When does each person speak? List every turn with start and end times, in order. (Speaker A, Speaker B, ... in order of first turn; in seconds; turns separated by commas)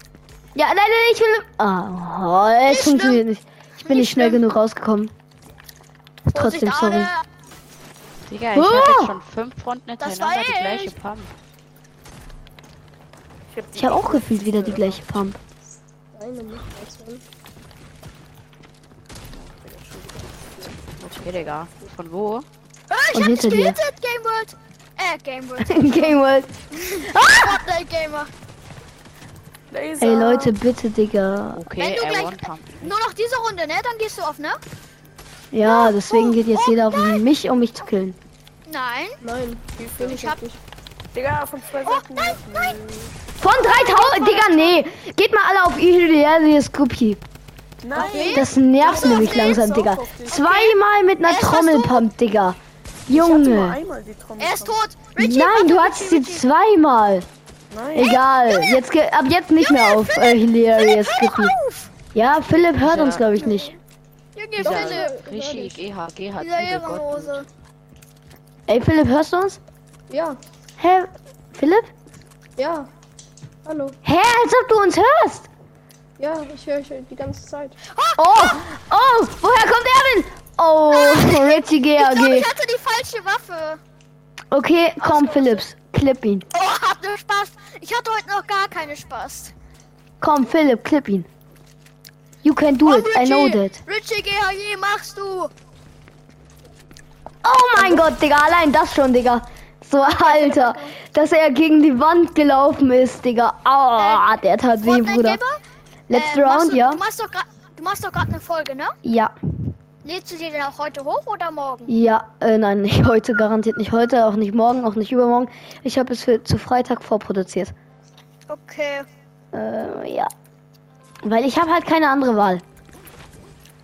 Speaker A: 0.6-5.1, Speaker B: 2.7-3.2, Speaker B: 3.8-4.4, Speaker A: 6.3-7.1, Speaker B: 6.3-7.2, Speaker C: 8.3-11.3, Speaker A: 8.5-9.2, Speaker B: 10.0-10.9, Speaker D: 13.5-15.2, Speaker A: 13.8-15.4, Speaker E: 16.1-17.2, Speaker D: 19.3-20.9, Speaker C: 20.9-22.5, Speaker B: 22.9-26.2, Speaker A: 23.1-23.8, Speaker A: 25.6-27.6, Speaker B: 26.7-28.3, Speaker D: 29.7-30.5, Speaker A: 30.0-31.6, Speaker C: 31.5-32.9, Speaker B: 31.8-34.6, Speaker A: 35.5-38.2, Speaker B: 35.6-37.2, Speaker B: 38.7-39.2, Speaker E: 39.2-40.6, Speaker D: 39.8-40.2, Speaker B: 40.1-40.4, Speaker D: 41.1-43.1, Speaker B: 41.8-42.8, Speaker A: 43.4-47.2, Speaker B: 43.5-44.9, Speaker D: 47.8-50.4, Speaker E: 47.9-48.5, Speaker B: 47.9-49.6, Speaker A: 48.3-53.8, Speaker B: 50.3-52.0, Speaker D: 53.1-54.8, Speaker B: 54.4-56.4, Speaker A: 55.2-57.3, Speaker D: 57.7-58.1, Speaker A: 58.0-61.5, Speaker B: 58.0-58.8, Speaker B: 59.6-61.9, Speaker A: 62.1-63.8, Speaker C: 62.7-63.3, Speaker B: 64.4-65.1, Speaker C: 64.6-67.4, Speaker E: 64.6-65.9, Speaker B: 66.4-67.5, Speaker A: 68.7-69.6, Speaker E: 70.1-70.4, Speaker A: 70.8-71.9, Speaker E: 72.6-72.9, Speaker E: 73.7-74.0, Speaker A: 74.0-75.5, Speaker E: 76.2-77.8, Speaker B: 77.9-78.6, Speaker A: 78.2-82.5, Speaker B: 80.9-83.8, Speaker A: 84.5-86.5, Speaker B: 85.0-85.6, Speaker B: 86.5-89.5, Speaker A: 90.2-91.3, Speaker A: 92.4-93.8, Speaker B: 92.8-95.5, Speaker A: 97.4-105.4, Speaker B: 100.0-101.0, Speaker B: 104.0-105.6, Speaker A: 106.1-107.0, Speaker B: 106.1-108.9, Speaker A: 109.0-109.4, Speaker B: 110.0-111.9, Speaker A: 111.9-117.7, Speaker B: 118.5-119.1, Speaker A: 119.5-120.3, Speaker A: 121.2-122.6